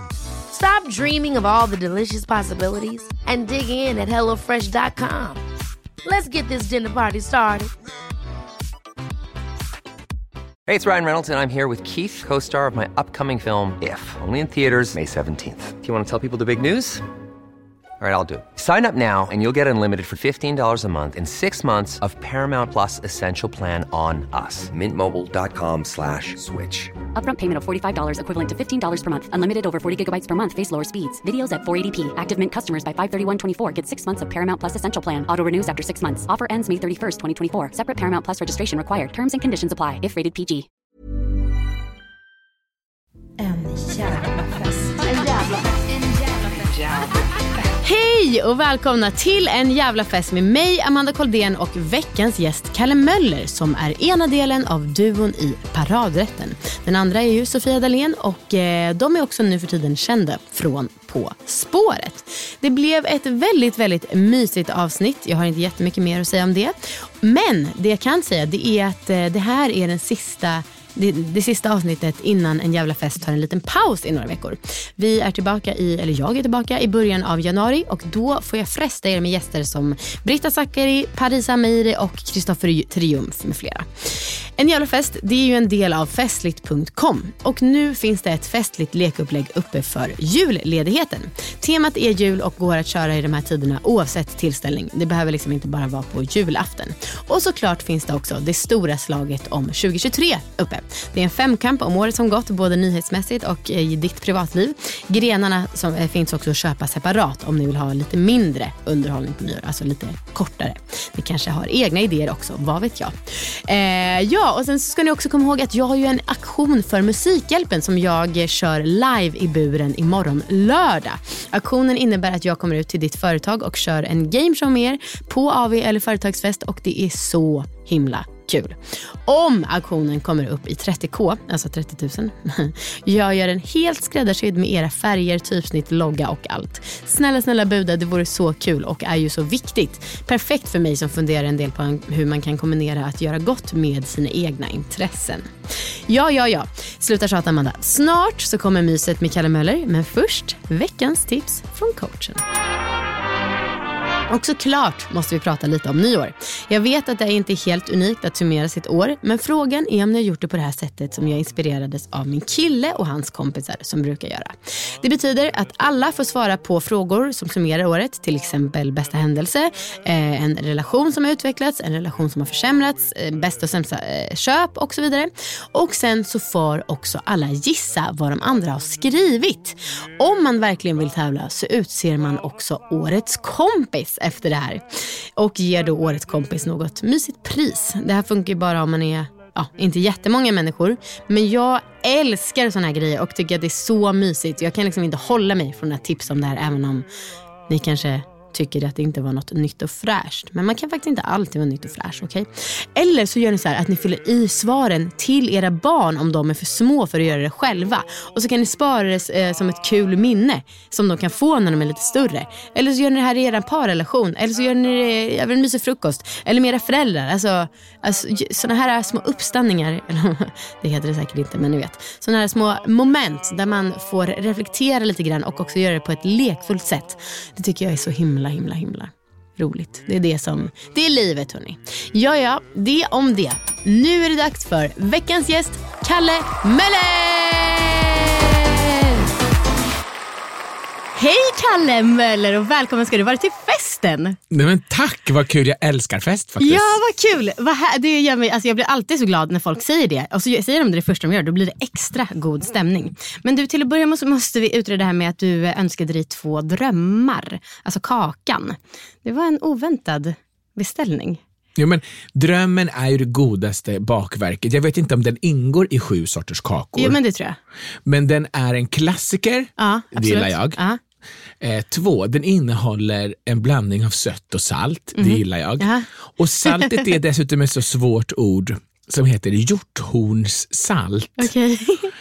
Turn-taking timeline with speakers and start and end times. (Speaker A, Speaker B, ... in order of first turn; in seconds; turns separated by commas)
Speaker A: 0.5-5.4, Speaker A: 6.0-7.7, Speaker B: 10.7-17.0, Speaker B: 18.0-27.0, Speaker C: 27.1-40.7, Speaker D: 43.4-45.5, Speaker D: 47.8-152.4, Speaker D: 154.3-197.1, Speaker D: 197.7-239.2, Speaker D: 241.2-244.4, Speaker E: 244.5-247.0, Speaker D: 246.6-261.4, Speaker E: 261.8-267.2, Speaker D: 266.9-267.6, Speaker E: 268.1-270.8, Speaker D: 269.8-271.0, Speaker E: 271.6-281.5, Speaker D: 275.1-276.1, Speaker D: 276.6-277.1, Speaker D: 281.4-282.1